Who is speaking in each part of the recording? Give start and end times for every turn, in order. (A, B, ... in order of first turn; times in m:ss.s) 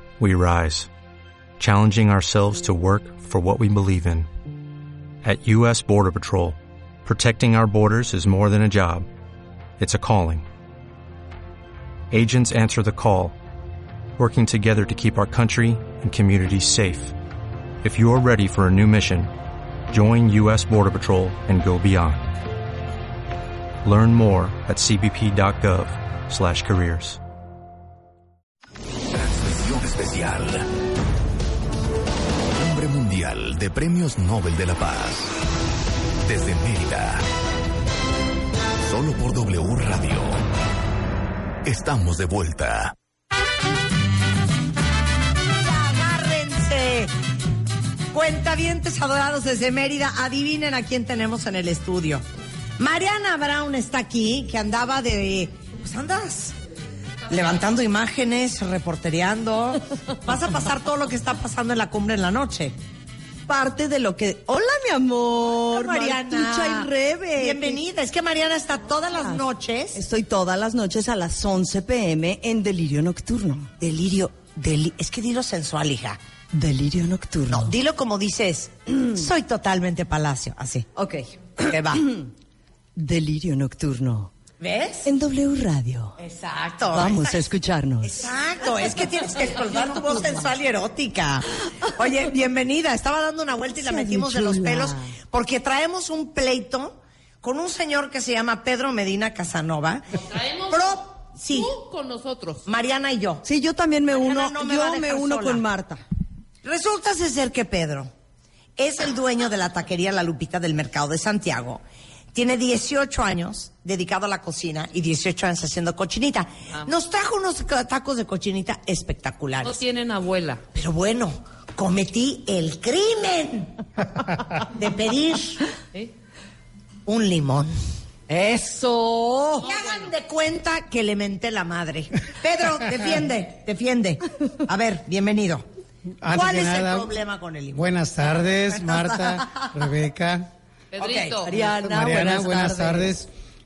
0:00.2-0:00.9 A
0:01.6-0:04.3 A
0:05.2-0:09.0 A
0:09.8-0:10.4 A
0:12.1-0:13.4 A
0:14.2-0:17.1 A
0:17.8-0:19.3 A
0:19.9-0:22.3 A
0:23.8-0:27.2 A
0:29.1-0:30.6 B
0:32.5-0:35.3 B
0:36.2-0:37.2 B
0:38.8-0:40.4 B
0:41.6-0:42.9 B
0:45.6-0:47.1 C
0:48.1-0:52.2 C
0:52.8-0:56.6 C
0:57.3-1:02.7 C
1:03.5-1:07.8 D
1:05.7-1:10.0 C
1:09.9-1:13.7 D
1:13.8-1:16.2 C
1:16.5-1:17.7 D
1:17.5-1:20.9 C
1:20.9-1:21.3 D
1:21.6-1:22.1 C
1:23.0-1:24.3 D
1:24.6-1:25.1 C
1:25.0-1:26.2 D
1:26.2-1:27.4 C
1:26.9-1:28.3 D
1:28.0-1:40.0 C
1:30.0-1:30.3 D
1:33.8-1:35.1 D
1:40.1-1:42.6 E
1:40.7-1:41.7 C
1:42.6-1:43.4 C
1:43.4-1:46.0 D
1:44.1-1:45.6 C
1:46.6-1:48.1 C
1:48.8-1:51.8 C
1:52.3-1:59.8 C
1:59.6-2:00.6 E
2:00.7-2:03.8 C
2:04.6-2:05.6 C
2:07.0-2:07.7 C
2:08.3-2:10.1 E
2:09.6-2:15.6 C
2:16.2-2:17.1 F
2:16.3-2:19.7 C
2:17.7-2:20.5 F
2:20.9-2:21.5 E
2:21.0-2:21.6 C
2:21.4-2:23.1 D
2:21.6-2:23.3 F